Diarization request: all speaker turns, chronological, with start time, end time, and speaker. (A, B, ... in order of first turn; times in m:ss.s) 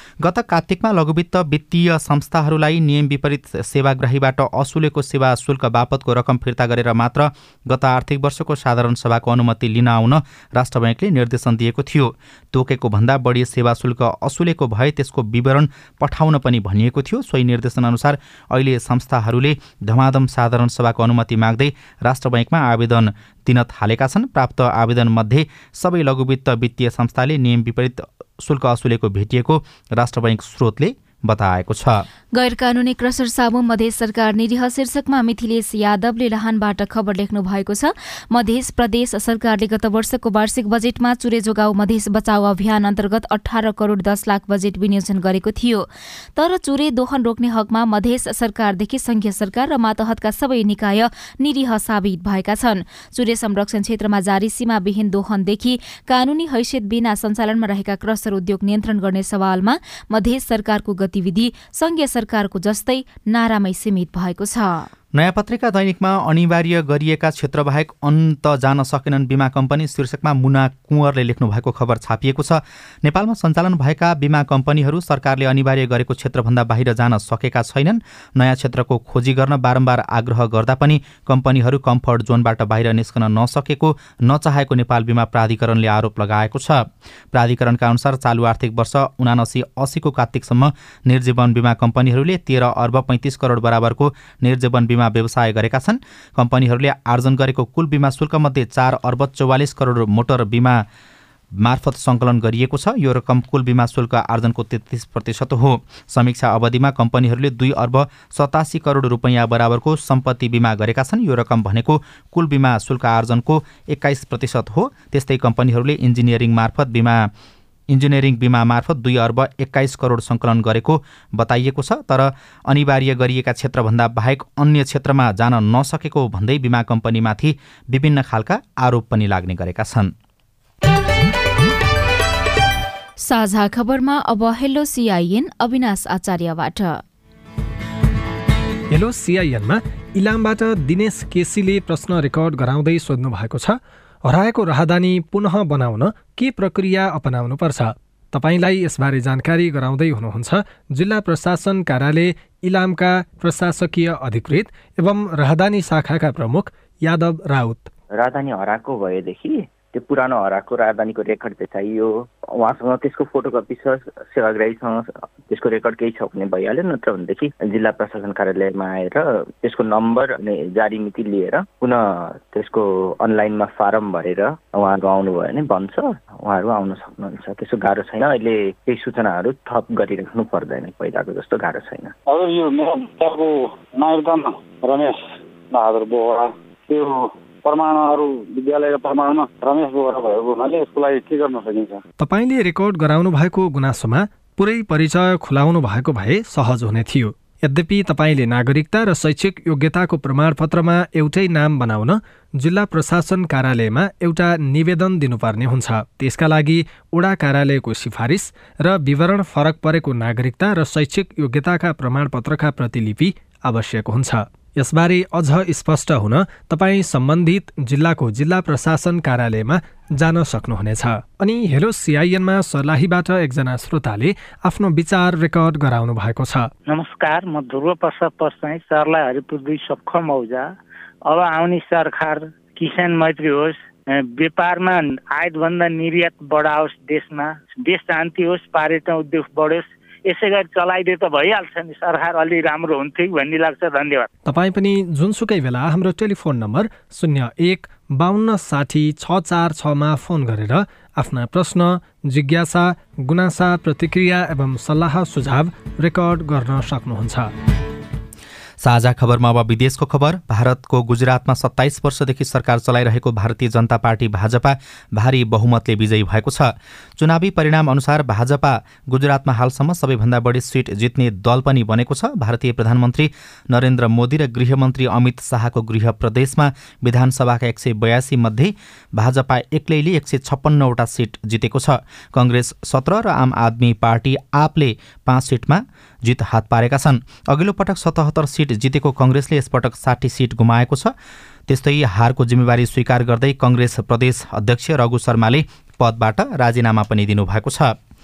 0:00.2-0:32.0 A
0:32.3-1:04.9 B
1:05.1-1:40.8 A
1:41.6-1:57.3 A
1:57.9-2:10.1 A
2:13.2-2:17.0 B
2:18.9-2:37.9 C
2:38.2-3:02.1 D
3:02.3-3:12.0 E
3:12.2-3:46.7 C
3:46.9-3:50.7 F
3:51.3-4:04.3 F
4:04.4-4:17.5 C
4:18.8-4:51.1 A
4:51.7-4:58.0 A